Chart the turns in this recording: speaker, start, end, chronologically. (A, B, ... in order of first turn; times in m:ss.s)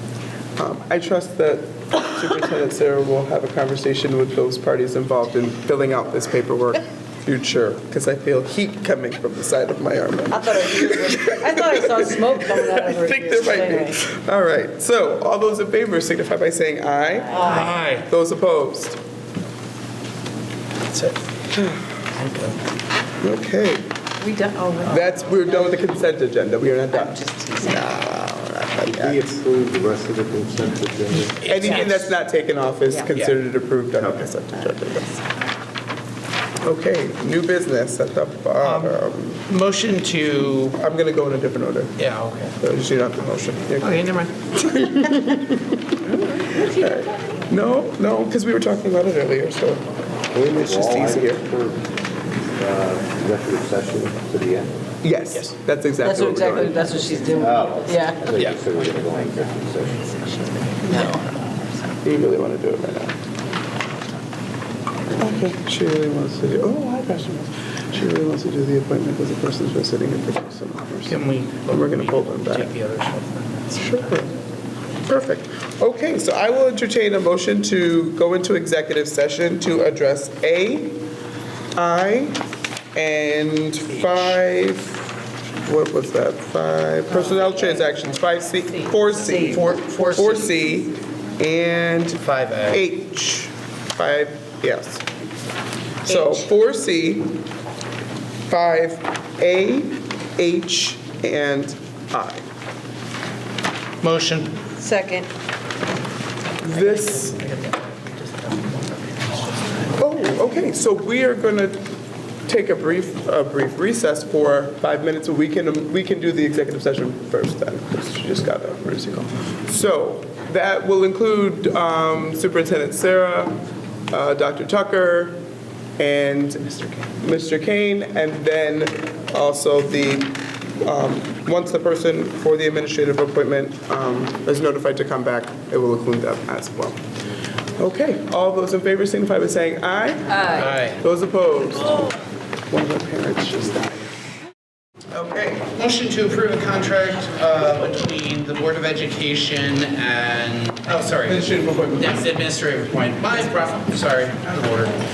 0:00.6-0:19.0 A
0:10.3-0:14.0 B
0:17.3-0:17.9 B
0:17.4-0:18.1 C
0:20.9-0:21.2 C
0:22.1-0:22.6 C
0:23.2-0:23.8 A
0:24.2-0:25.8 B
0:24.9-0:29.2 A
0:26.9-0:27.9 B
0:28.9-0:31.5 D
0:31.4-0:32.1 C
0:31.4-0:35.2 A
0:34.0-0:34.2 D
0:36.6-0:39.4 A
0:38.6-0:40.8 C
0:40.7-0:41.9 A
0:42.0-0:42.6 C
0:42.6-0:45.7 A
0:43.8-0:44.4 C
0:46.1-0:46.4 C
0:46.6-0:49.8 A
0:50.3-0:51.8 D
0:50.4-0:51.4 A
0:52.6-0:54.8 D
0:55.0-0:57.0 A
0:56.0-0:58.2 B
0:57.3-1:00.3 D
0:58.3-0:59.0 C
1:00.1-1:01.7 C
1:00.8-1:01.2 B
1:02.0-1:03.2 A
1:05.2-1:12.8 A
1:11.1-1:14.3 C
1:13.8-1:14.3 A
1:15.1-1:21.0 A
1:21.8-1:22.4 A
1:23.0-1:25.0 A
1:25.6-1:35.0 A
1:27.5-1:27.9 B
1:28.8-1:29.6 B
1:29.3-1:30.6 C
1:32.2-1:32.8 C
1:36.0-1:37.4 A
1:36.1-1:36.5 B
1:38.5-1:42.4 A
1:44.0-1:44.5 C
1:44.8-1:45.3 B
1:46.6-1:47.4 A
1:46.6-1:49.9 C
1:50.0-1:51.8 A
1:52.5-2:03.6 A
2:04.1-2:05.4 A
2:06.0-2:17.0 A
2:17.8-2:22.1 A
2:20.3-2:20.7 B
2:20.5-2:21.0 C
2:22.7-2:24.1 A
2:25.1-2:25.7 A
2:25.6-2:35.0 C
2:31.2-2:32.3 A